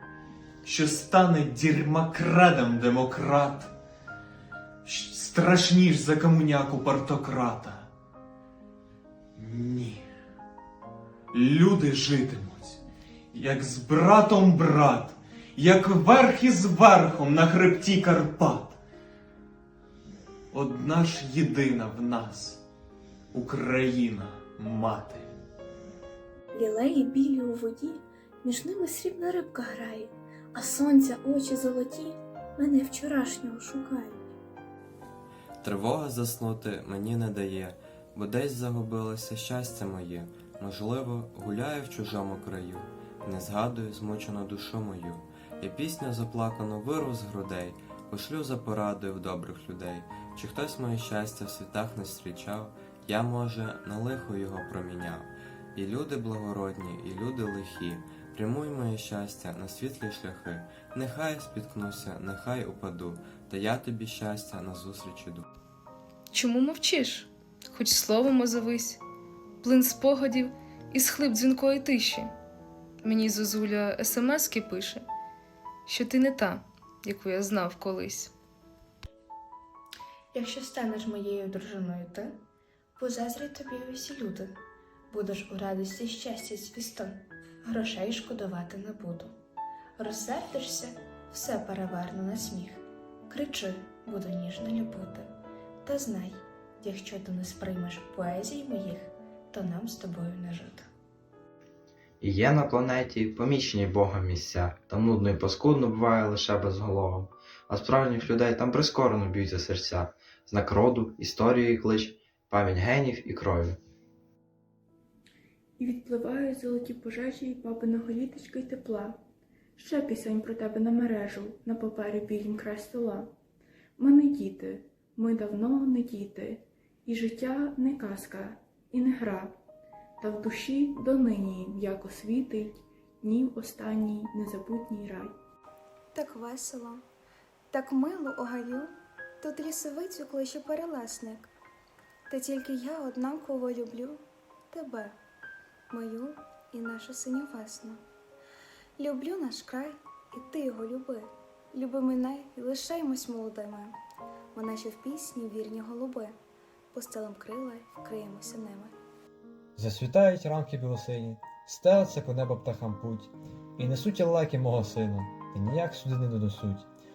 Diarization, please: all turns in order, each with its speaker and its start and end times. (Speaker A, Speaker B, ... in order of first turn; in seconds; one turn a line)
Speaker A: 0.6-3.7
Speaker A: 4.8-7.9
Speaker A: 9.3-10.1
Speaker A: 11.3-18.8
Speaker A: 20.5-22.6
Speaker A: 23.3-25.3
Speaker B: 26.5-34.2
Speaker C: 35.6-65.5
Speaker D: 66.3-69.0
Speaker D: 69.6-72.3
Speaker D: 73.0-75.0
Speaker D: 75.9-78.3
Speaker E: 80.3-82.3
Speaker E: 83.0-84.6
Speaker E: 85.1-89.3
Speaker E: 90.0-95.3
Speaker E: 95.8-100.9
Speaker F: 102.2-113.8
Speaker G: 115.8-119.2
Speaker G: 119.8-123.3
Speaker G: 124.0-129.6
Speaker G: 130.2-135.3
Speaker H: 136.1-137.0
Speaker H: 137.7-141.5
Speaker H: 142.3-145.2
Speaker H: 145.9-148.0
Speaker H: 149.0-154.0
Speaker H: 154.5-156.4
Speaker H: 156.9-159.0
Speaker I: 159.8-166.9